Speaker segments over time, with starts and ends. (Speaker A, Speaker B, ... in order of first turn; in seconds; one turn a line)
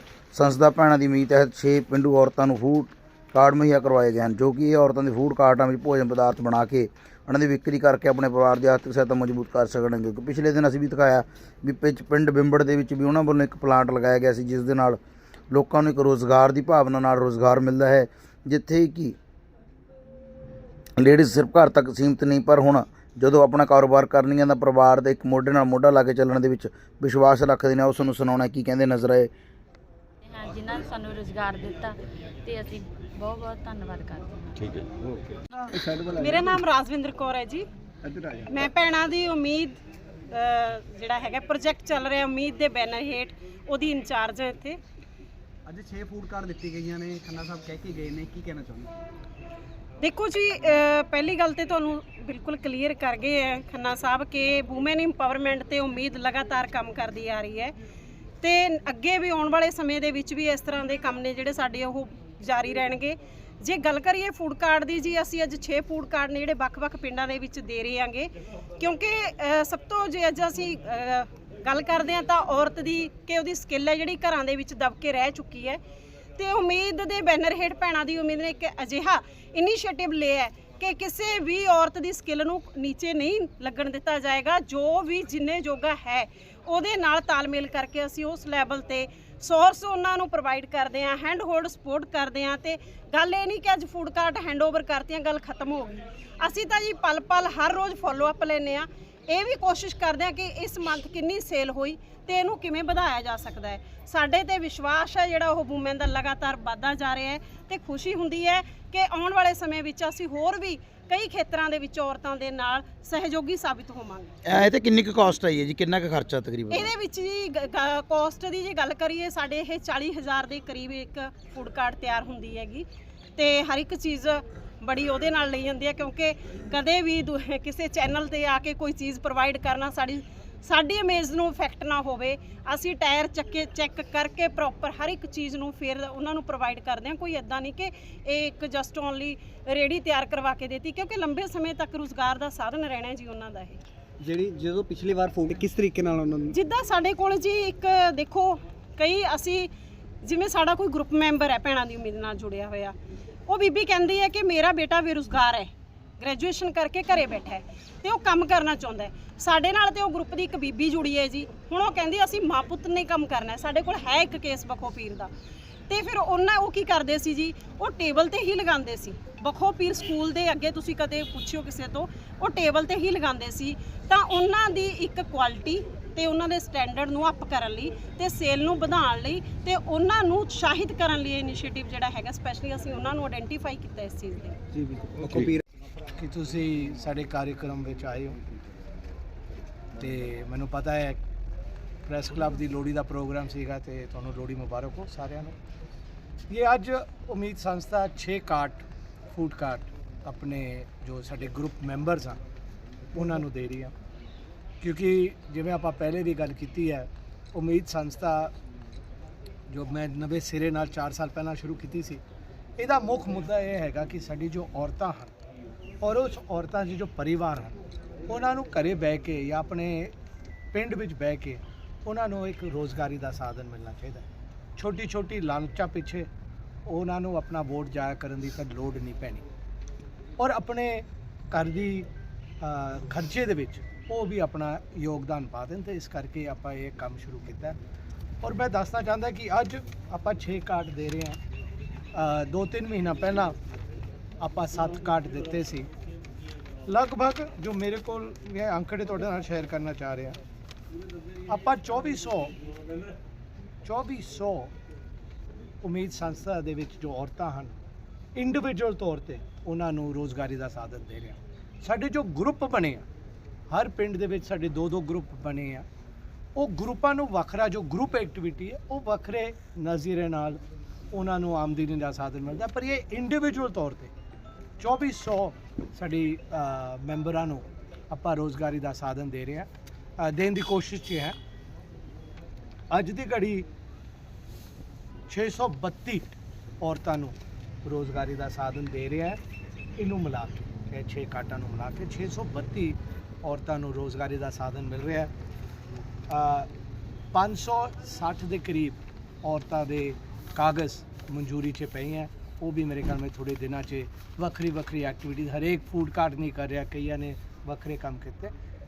Speaker A: 0.3-15.0
Speaker A: 15.5-19.2
Speaker A: 21.0-29.3
Speaker B: 30.2-34.6
Speaker C: 35.0-36.5
Speaker D: 36.2-37.7
Speaker C: 38.0-38.5
Speaker D: 38.5-39.8
Speaker D: 40.3-44.8
Speaker C: 45.6-48.9
Speaker D: 50.0-57.7
Speaker D: 58.4-75.8
Speaker D: 76.4-114.4
Speaker A: 114.5-116.9
Speaker D: 116.7-143.8
Speaker C: 144.2-146.6
Speaker D: 146.5-149.7
Speaker D: 150.2-152.9
Speaker D: 153.5-165.3
Speaker D: 165.9-184.6
Speaker C: 184.7-185.6
Speaker E: 185.3-185.5
Speaker E: 186.1-188.4
Speaker E: 190.0-191.2
Speaker E: 192.1-195.6
Speaker E: 196.5-202.4
Speaker E: 203.1-203.9
Speaker E: 204.8-208.5
Speaker E: 209.7-212.2
Speaker E: 212.8-215.3
Speaker E: 216.0-220.1
Speaker E: 220.7-226.3
Speaker E: 226.8-229.4
Speaker E: 230.4-232.1
Speaker E: 232.6-237.8
Speaker E: 238.4-241.4
Speaker E: 242.1-243.5
Speaker E: 244.4-245.9
Speaker E: 246.8-250.4
Speaker E: 251.5-252.5
Speaker E: 253.8-254.7
Speaker E: 255.8-257.8
Speaker E: 258.3-263.1
Speaker E: 263.7-265.9
Speaker E: 266.6-270.6
Speaker E: 271.1-274.1
Speaker E: 274.8-281.4
Speaker E: 282.9-283.7
Speaker E: 285.3-289.4
Speaker E: 290.0-295.3
Speaker E: 296.3-296.7
Speaker E: 297.3-308.5